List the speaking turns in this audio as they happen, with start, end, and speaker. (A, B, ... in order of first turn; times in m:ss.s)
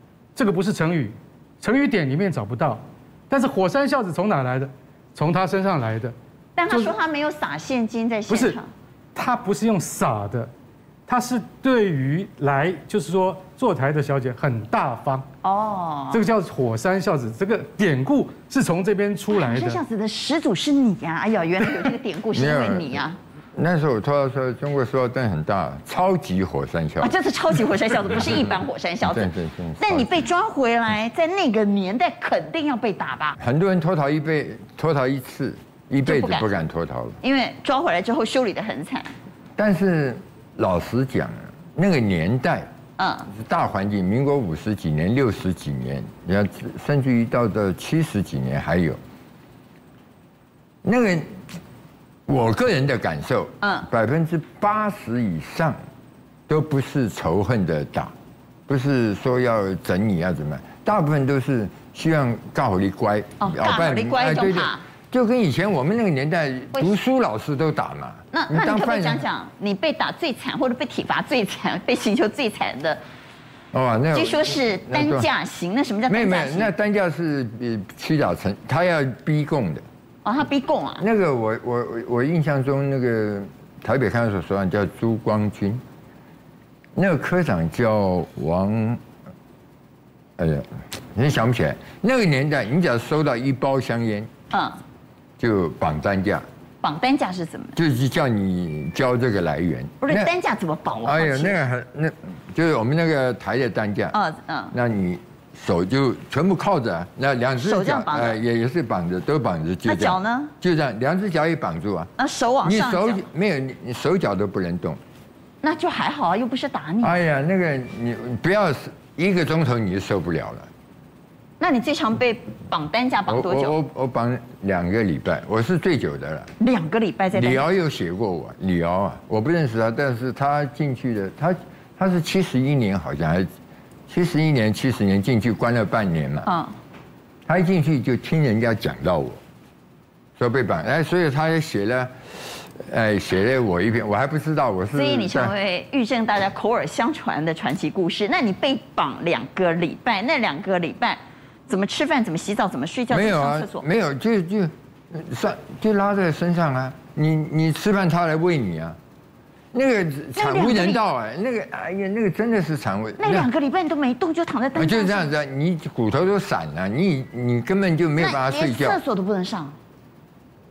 0:00.4-0:06.1 A
0:06.6-0:08.7 B
0:06.7-0:06.9 A
0:08.3-0:08.6 A
0:09.2-0:10.5 A
0:11.1-0:15.3 A
0:15.4-0:16.2 B
0:16.1-0:19.8 A
0:19.3-0:23.2 B
0:22.3-0:23.0 C
0:23.6-0:27.1 C
0:27.0-0:33.4 B
0:29.0-0:30.2 C
0:33.4-0:37.2 C
0:36.1-0:36.5 B
0:37.2-0:39.1 B
0:39.6-0:42.7 C
0:43.0-0:43.3 B
0:43.3-0:49.0 C
0:50.8-0:51.3 C
0:52.3-0:55.8 C
0:53.6-0:53.9 B
0:56.5-0:58.1 C
0:58.7-1:09.2 C
1:03.4-1:04.8 B
1:08.3-1:13.0 B
1:13.7-1:15.3 C
1:14.1-1:16.7 B
1:16.1-1:19.8 C
1:20.2-1:21.1 B
1:21.0-1:25.8 C
1:27.0-1:29.0 C
1:30.4-1:34.3 C
1:34.5-1:34.8 B
1:35.4-1:36.4 C
1:36.8-1:37.8 B
1:37.8-1:40.3 C
1:40.0-1:41.6 B
1:41.0-1:44.2 C
1:44.1-1:44.8 B
1:44.7-1:52.1 C
1:47.6-1:48.4 B
1:49.9-1:50.5 B
1:52.2-1:53.2 B
1:52.6-1:55.0 C
1:55.6-1:57.2 B
1:57.0-2:00.7 C
2:01.6-2:03.8 B
2:03.3-2:06.5 C
2:06.6-2:07.7 B
2:07.3-2:13.5 C
2:14.1-2:16.5 C
2:16.4-2:16.8 B
2:17.5-2:19.4 C
2:20.4-2:25.5 C
2:25.0-2:33.8 B
2:33.1-2:39.0 C
2:39.7-2:43.5 C
2:40.4-2:41.0 B
2:43.2-2:45.3 B
2:44.8-2:49.0 C
2:48.2-2:49.8 B